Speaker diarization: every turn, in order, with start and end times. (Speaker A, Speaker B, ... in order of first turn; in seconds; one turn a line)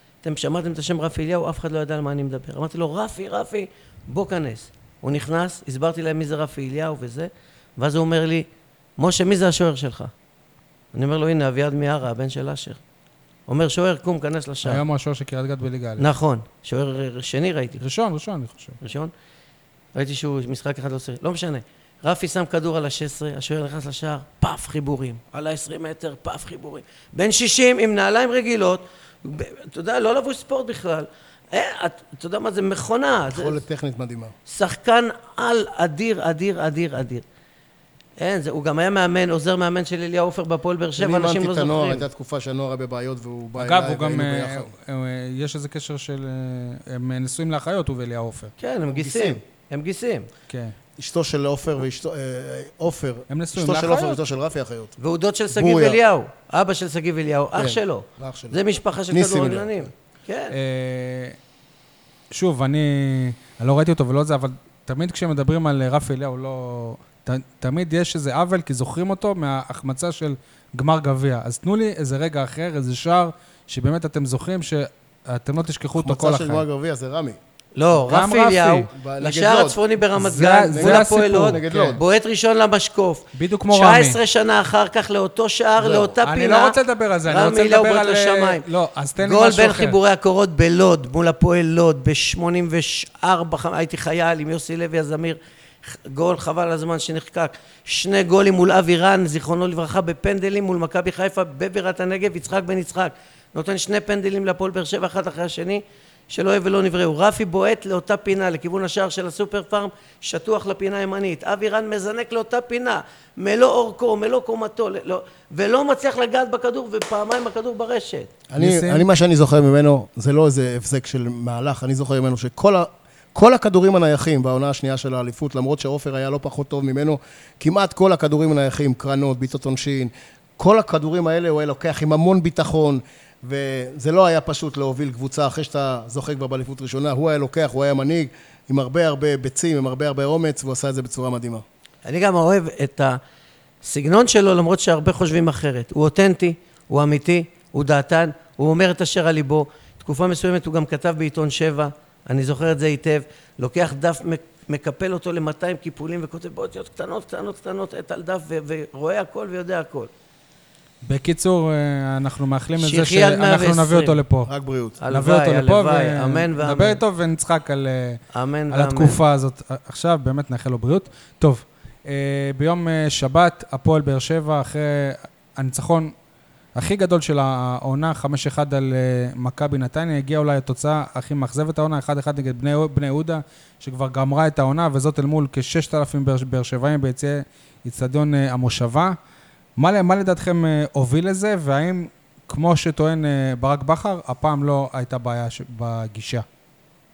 Speaker A: 0.2-10.1
Speaker A: 10.9-12.8
Speaker A: 13.5-14.8
Speaker B: 14.6-16.1
Speaker A: 16.0-17.8
Speaker B: 17.8-18.8
Speaker A: 18.8-19.1
Speaker A: 19.9-33.6
Speaker C: 33.3-34.3
Speaker A: 34.5-37.2
Speaker A: 38.2-42.0
Speaker C: 41.0-44.7
Speaker B: 43.6-48.5
Speaker A: 48.6-50.3
Speaker C: 48.9-49.4
Speaker B: 50.5-50.8
Speaker C: 51.0-54.9
Speaker B: 53.3-54.2
Speaker A: 55.0-60.5
Speaker C: 55.5-56.0
Speaker C: 57.5-59.9
Speaker B: 60.5-61.4
Speaker B: 62.3-76.6
Speaker C: 76.0-77.4
Speaker A: 77.8-88.6
Speaker B: 78.0-78.9
Speaker C: 78.9-79.8
Speaker B: 80.1-82.0
Speaker C: 80.7-82.0
Speaker B: 83.3-84.2
Speaker C: 85.8-86.1
Speaker B: 86.2-90.0
Speaker A: 89.2-118.3
Speaker C: 118.5-141.6
Speaker B: 118.6-119.0
Speaker A: 142.1-143.2
Speaker A: 143.8-160.1
Speaker B: 161.0-164.5
Speaker A: 162.8-164.2
Speaker C: 164.4-165.0
Speaker A: 165.0-167.0
Speaker B: 165.1-176.1
Speaker A: 168.3-169.2
Speaker B: 176.7-189.2
Speaker B: 189.8-196.4